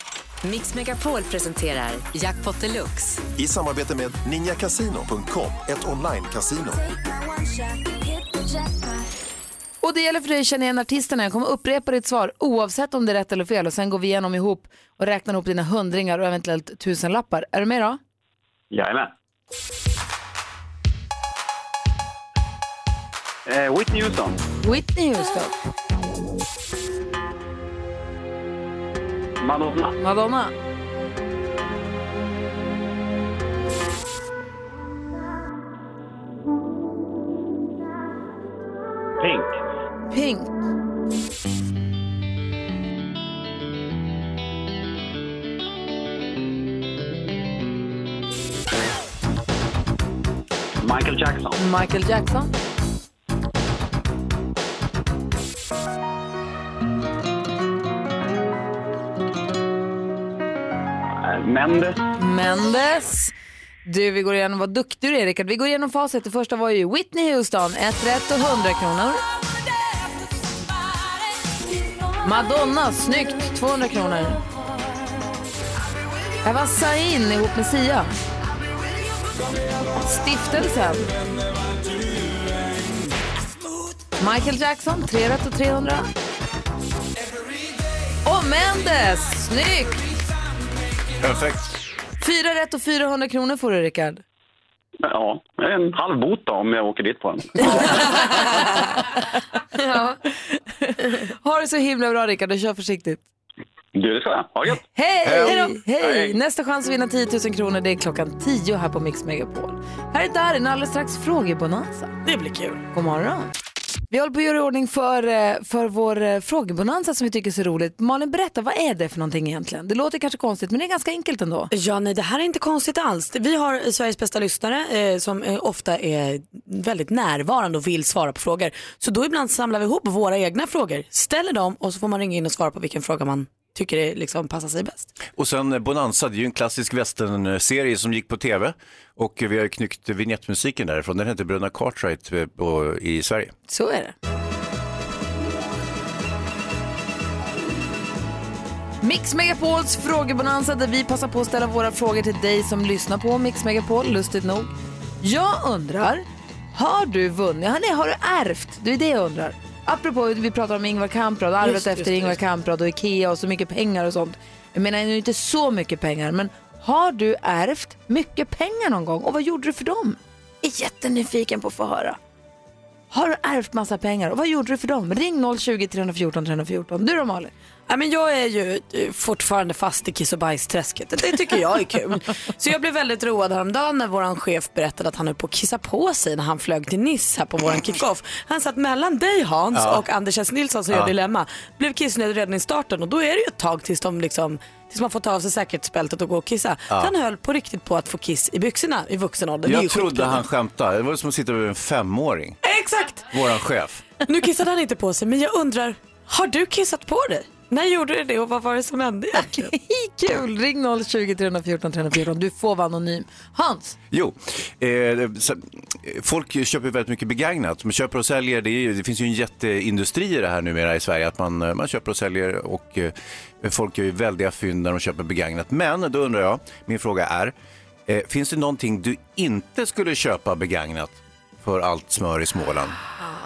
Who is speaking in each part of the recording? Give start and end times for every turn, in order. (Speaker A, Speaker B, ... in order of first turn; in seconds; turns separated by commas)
Speaker A: 0.4-3.2, Speaker B: 3.4-6.8, Speaker C: 9.8-18.0, Speaker D: 18.7-19.0, Speaker D: 23.5-24.3, Speaker C: 24.6-25.5, Speaker D: 29.4-29.8, Speaker C: 30.0-30.5, Speaker C: 40.1-40.5, Speaker C: 51.5-52.5, Speaker C: 62.2-63.3, Speaker C: 63.8-69.2, Speaker C: 72.2-74.4, Speaker C: 76.4-78.1, Speaker C: 80.0-81.1, Speaker C: 84.2-86.1, Speaker C: 88.2-90.1, Speaker E: 91.2-91.7, Speaker C: 92.2-94.2, Speaker D: 95.1-97.8, Speaker C: 99.9-103.2, Speaker D: 104.0-104.7, Speaker C: 104.9-112.1, Speaker E: 105.2-105.7, Speaker F: 112.2-112.8, Speaker C: 112.9-113.5, Speaker C: 114.1-121.7, Speaker F: 121.7-135.1, Speaker E: 135.3-143.5, Speaker C: 143.7-144.1, Speaker C: 149.0-172.2, Speaker F: 161.6-162.3, Speaker C: 173.1-177.5, Speaker F: 177.9-200.4, Speaker E: 189.7-190.0, Speaker E: 199.6-202.6, Speaker F: 202.6-203.3, Speaker E: 203.3-204.0, Speaker F: 204.2-209.7, Speaker C: 209.4-213.9, Speaker E: 214.1-227.5, Speaker E: 228.1-232.9